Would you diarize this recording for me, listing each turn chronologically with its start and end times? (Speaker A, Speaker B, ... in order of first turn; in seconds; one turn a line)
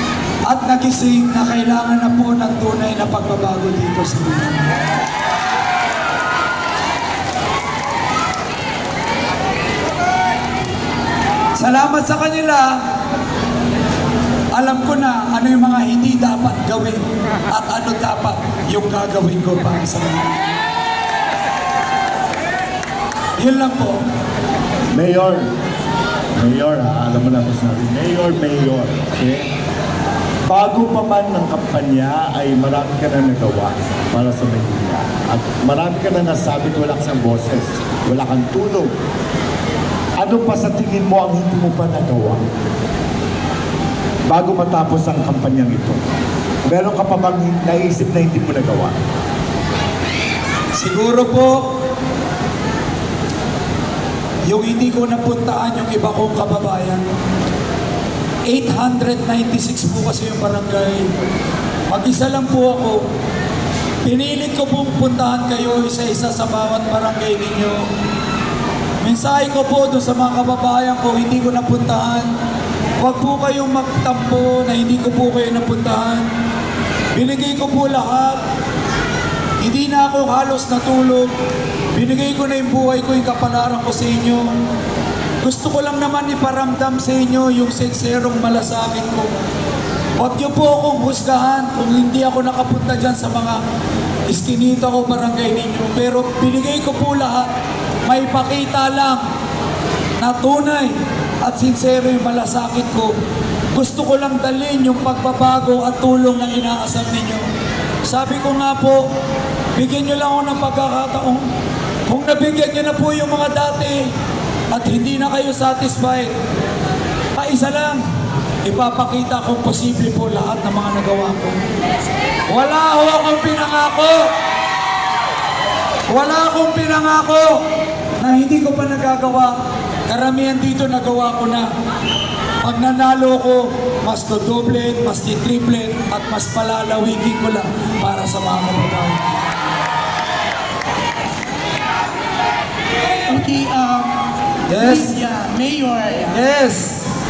Speaker A: 0.5-4.7
Speaker A: 11.6-12.8
Speaker A: 14.6-17.0
Speaker A: 17.5-20.5
Speaker A: 23.4-24.0
Speaker B: 24.9-25.4
Speaker B: 26.4-29.4
Speaker B: 30.5-38.9
Speaker B: 40.2-42.4
Speaker B: 44.3-46.0
Speaker B: 46.7-49.0
Speaker A: 50.8-51.6
Speaker A: 54.5-57.0
Speaker A: 58.5-61.1
Speaker A: 61.9-63.0
Speaker A: 64.0-67.8
Speaker A: 69.0-72.3
Speaker A: 73.0-76.2
Speaker A: 77.2-78.4
Speaker A: 79.6-81.3
Speaker A: 82.0-84.5
Speaker A: 85.4-89.3
Speaker A: 90.2-93.6
Speaker A: 94.3-97.5
Speaker A: 98.0-99.2
Speaker A: 100.2-100.9
Speaker A: 101.5-103.1
Speaker A: 103.8-107.5
Speaker A: 108.1-109.0
Speaker A: 109.8-111.5
Speaker A: 112.1-114.0
Speaker A: 114.7-116.3
Speaker A: 117.3-118.0
Speaker A: 118.7-121.6
Speaker A: 122.5-124.2
Speaker A: 126.1-127.5
Speaker A: 128.2-129.5
Speaker A: 130.1-131.7
Speaker A: 132.6-139.2
Speaker C: 143.3-144.1
Speaker A: 144.7-145.1
Speaker C: 144.8-146.4
Speaker A: 146.3-147.0